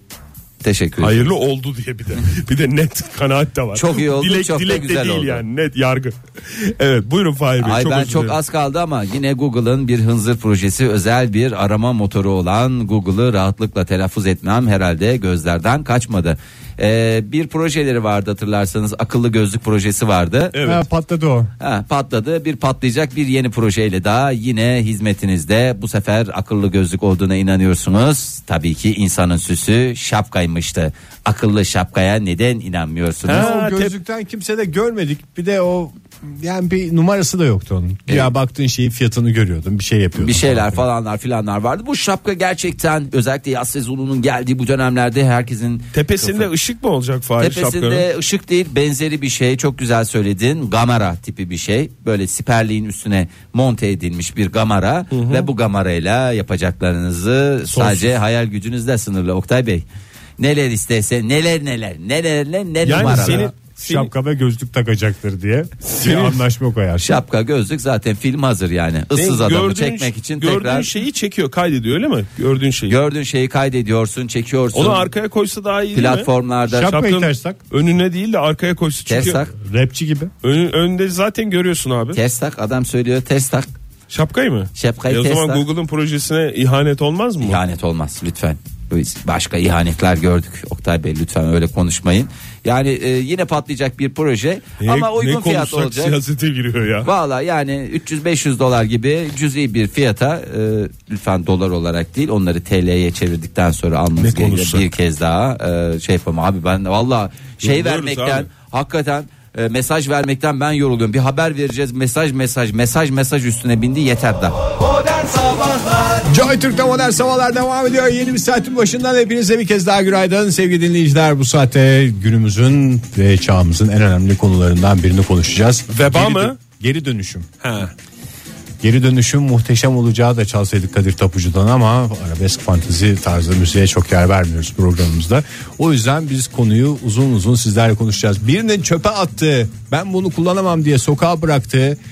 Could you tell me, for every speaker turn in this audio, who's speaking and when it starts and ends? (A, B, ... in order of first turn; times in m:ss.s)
0:00.6-0:01.2 A
0:01.0-0:08.4 B
0:03.7-0:05.4 A
0:07.6-0:20.6 A
0:20.5-0:20.8 B
0:20.6-0:21.5 C
0:21.6-0:33.5 A
0:33.3-0:33.9 B
0:33.3-0:40.8 C
0:40.2-0:46.5 A
0:45.9-0:48.0 B
0:47.4-0:59.8 A
0:55.1-0:55.5 B
0:57.7-0:58.2 B
1:00.4-1:03.5 A
1:02.8-1:04.1 B
1:03.0-1:07.1 C
1:05.9-1:06.4 B
1:07.0-1:10.9 A
1:09.2-1:13.0 B
1:12.9-1:15.0 A
1:14.7-1:16.3 B
1:15.9-1:16.9 A
1:16.7-1:17.6 C
1:16.8-1:19.4 B
1:19.1-1:19.5 A
1:19.6-1:20.3 C
1:20.4-1:22.2 B
1:22.1-1:23.7 A
1:24.1-1:27.6 B
1:24.8-1:25.6 A
1:27.4-1:36.1 A
1:34.8-1:37.1 B
1:37.0-1:54.6 A
1:44.2-1:44.9 B
1:47.6-1:48.5 B
1:56.3-2:07.5 C
2:05.9-2:06.6 B
2:07.6-2:07.9 B
2:08.8-2:22.0 C